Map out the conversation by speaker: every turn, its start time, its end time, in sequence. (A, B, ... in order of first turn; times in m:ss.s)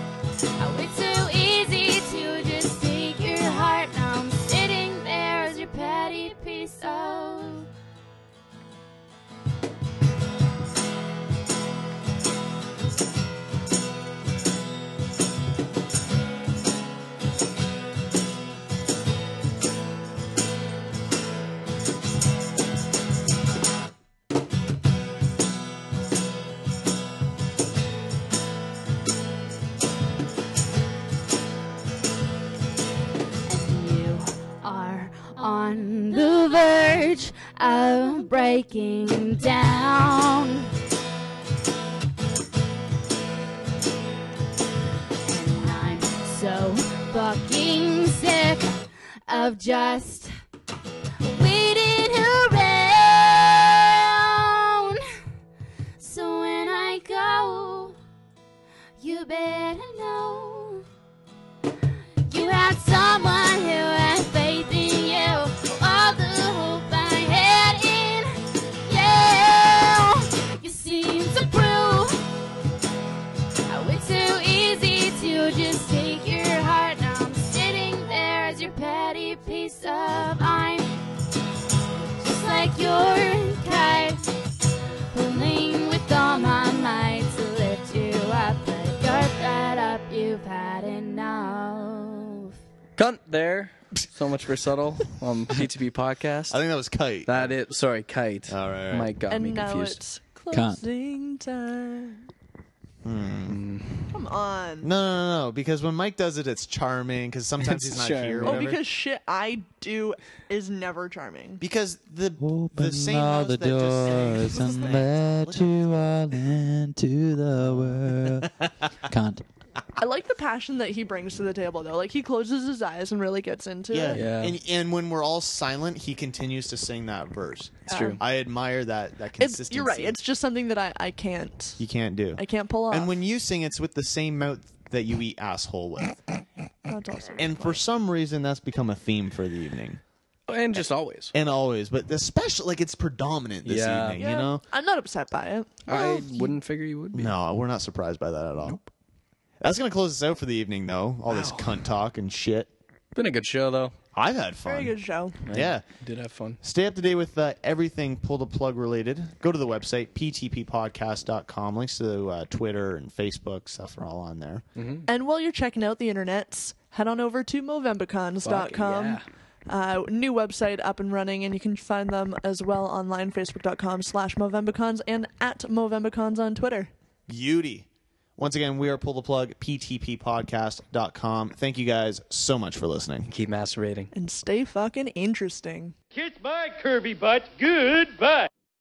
0:00.6-0:07.7 A
0:33.5-0:40.7 A
0:45.2-0:48.7 A
0:49.3-0:50.3 A
0:51.2-0:55.0 A
0:56.0-0:58.0 A
0:59.0-1:00.8 A
1:02.3-1:08.3 A
1:08.8-1:12.2 A
1:13.7-1:21.0 A
1:22.2-1:24.2 A
1:25.1-1:32.5 A
1:33.0-1:36.6 B
1:36.5-1:37.5 C
1:37.2-1:40.0 B
1:38.5-1:39.1 C
1:39.3-1:42.3 D
1:40.5-1:40.9 E
1:43.0-1:43.6 C
1:43.5-1:44.2 B
1:44.1-1:44.9 D
1:44.8-1:48.8 C
1:47.6-1:48.7 B
1:48.4-1:51.6 D
1:51.6-1:55.9 C
1:52.4-1:59.4 E
1:54.6-1:55.0 D
2:00.0-2:04.2 D
2:03.9-2:10.2 C
2:04.1-2:04.6 B
2:07.9-2:08.2 B
2:07.9-2:08.2 D
2:09.4-2:11.8 D
2:11.8-2:16.2 C
2:12.4-2:13.1 D
2:16.9-2:17.8 D
2:17.4-2:20.0 C
2:20.5-2:21.3 B
2:20.8-2:24.6 C
2:23.6-2:24.2 B
2:24.2-2:26.6 D
2:25.9-2:27.3 B
2:27.1-2:28.8 C
2:29.6-2:32.7 C
2:31.3-2:31.8 B
2:33.2-2:34.0 B
2:34.2-2:35.0 C
2:34.7-2:35.4 D
2:35.4-2:36.6 B
2:35.5-2:35.8 C
2:36.6-2:44.6 C
2:44.8-2:45.1 B
2:45.1-2:56.9 D
2:48.4-2:49.3 B
2:57.3-3:03.3 C
3:03.3-3:04.1 B
3:04.1-3:06.0 D
3:06.1-3:08.5 F